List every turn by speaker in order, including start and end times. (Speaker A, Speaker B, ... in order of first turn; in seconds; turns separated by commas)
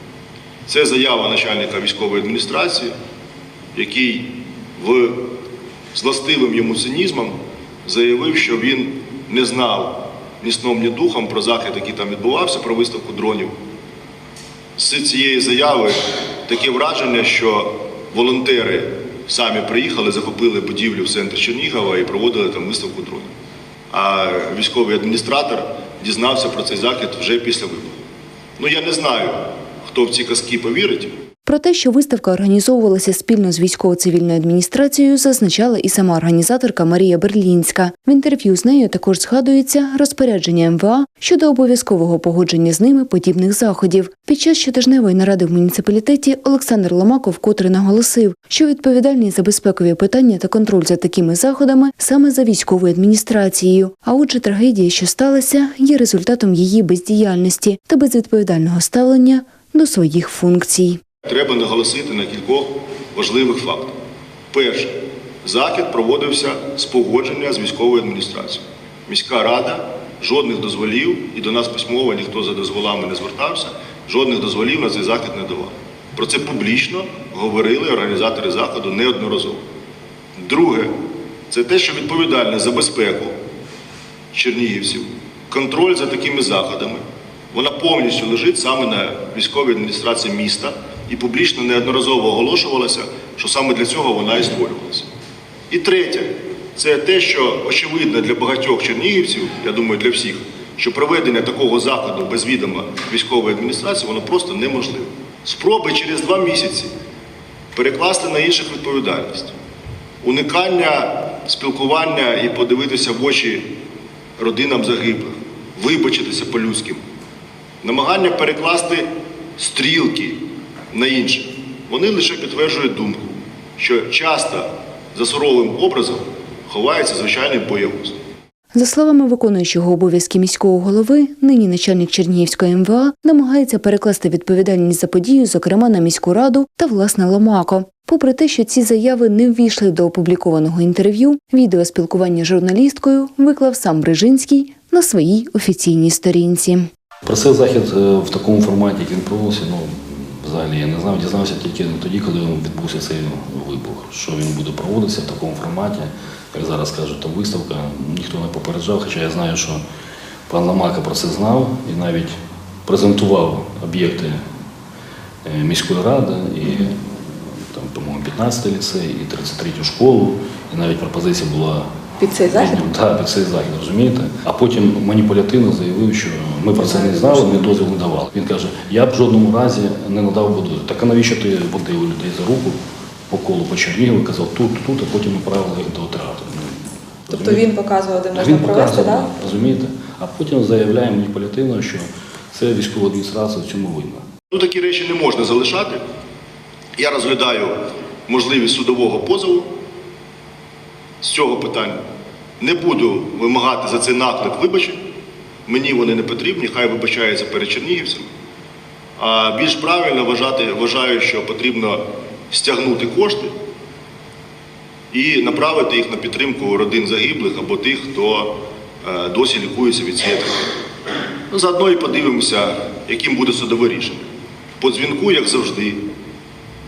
Speaker A: 0.7-2.9, Speaker A: 3.8-5.3, Speaker A: 5.9-13.5, Speaker A: 14.8-23.3, Speaker A: 23.9-28.0, Speaker A: 28.6-31.1, Speaker B: 31.5-61.0, Speaker A: 61.3-64.0, Speaker A: 64.5-79.6, Speaker A: 80.4-80.9, Speaker A: 81.5-83.3, Speaker A: 84.3-95.1, Speaker A: 95.7-106.9, Speaker A: 107.8-109.5, Speaker A: 110.2-113.7, Speaker A: 114.4-117.0, Speaker A: 117.8-119.1, Speaker A: 119.6-128.2, Speaker B: 128.7-146.9, Speaker C: 147.2-159.8, Speaker C: 160.5-162.3, Speaker C: 162.9-164.4, Speaker C: 165.4-171.9, Speaker D: 172.2-172.8, Speaker C: 172.4-182.8, Speaker D: 176.9-177.6, Speaker C: 183.3-187.7, Speaker D: 187.3-189.3, Speaker C: 188.3-194.2, Speaker A: 194.5-196.0, Speaker A: 197.0-199.7, Speaker A: 201.2-202.0, Speaker A: 202.6-205.0, Speaker A: 205.7-208.3, Speaker A: 209.2-213.5, Speaker A: 215.1-220.8, Speaker A: 221.5-224.2, Speaker A: 224.8-226.0